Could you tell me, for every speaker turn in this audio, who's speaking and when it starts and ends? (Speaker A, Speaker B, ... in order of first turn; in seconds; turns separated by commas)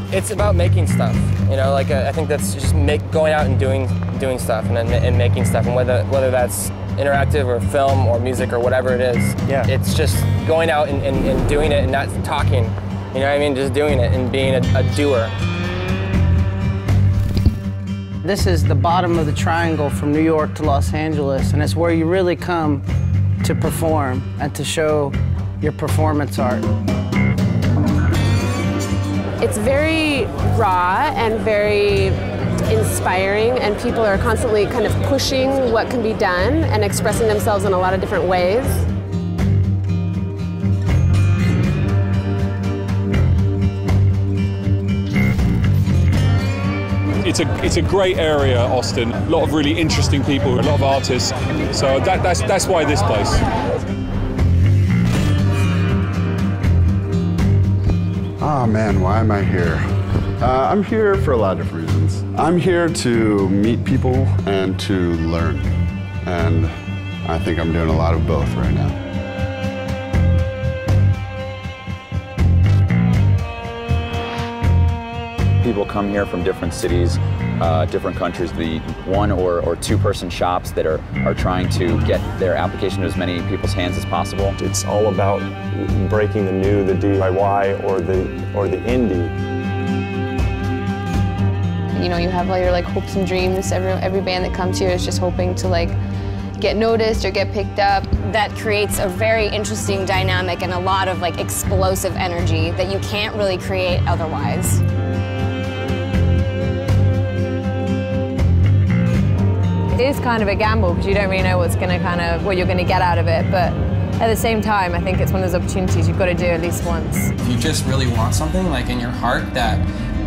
Speaker A: 0.1-15.3, Speaker B: 18.3-22.8, Speaker B: 23.5-25.1, Speaker B: 25.6-26.6, Speaker C: 29.4-32.2, Speaker C: 32.7-38.8, Speaker D: 47.2-53.4, Speaker E: 58.4-59.8, Speaker E: 60.4-69.0, Speaker F: 75.6-84.5, Speaker G: 84.6-89.3, Speaker H: 92.0-96.0, Speaker H: 96.6-98.1, Speaker I: 98.2-104.8, Speaker J: 110.0-117.3, Speaker K: 117.4-119.8